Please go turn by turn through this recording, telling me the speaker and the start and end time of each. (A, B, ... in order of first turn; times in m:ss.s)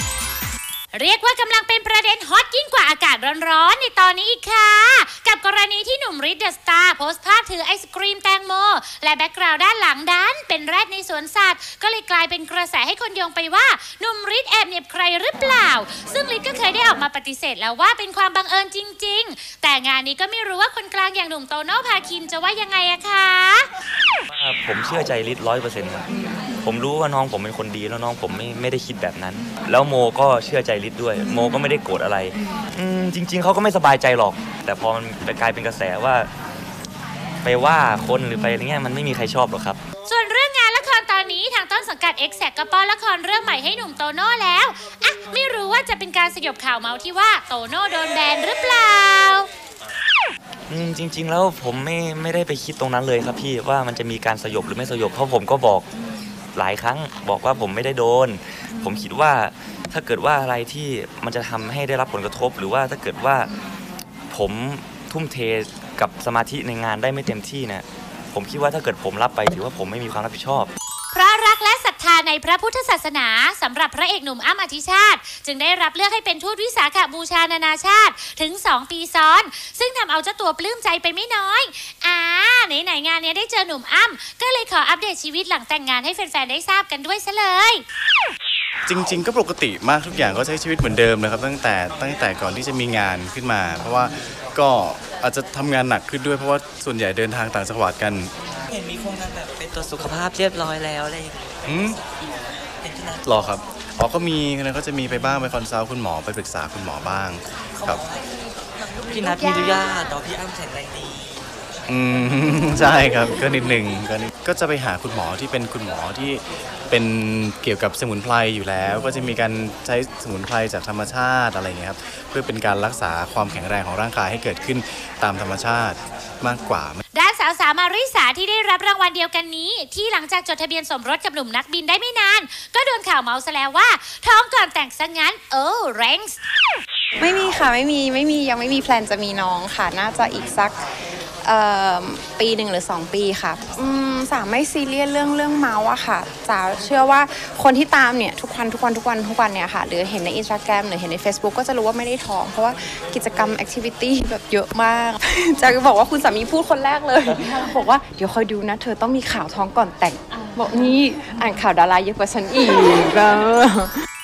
0:00.9-0:23.7 A
0:24.3-0:26.1 B
0:26.6-0:36.3 B
0:37.4-0:39.8 B
0:40.1-0:49.5 A
0:50.7-0:55.9 B
0:56.5-1:03.5 B
1:04.3-1:10.7 B
1:11.1-1:27.8 A
1:28.9-1:38.3 C
1:38.7-1:41.5 D
1:41.6-1:42.0 C
1:42.8-1:43.2 D
1:43.2-1:48.0 C
1:47.8-1:48.2 D
1:49.0-1:51.4 D
1:51.9-2:07.0 C
2:07.1-2:16.4 A
2:17.2-2:20.8 E
2:21.4-2:44.0 E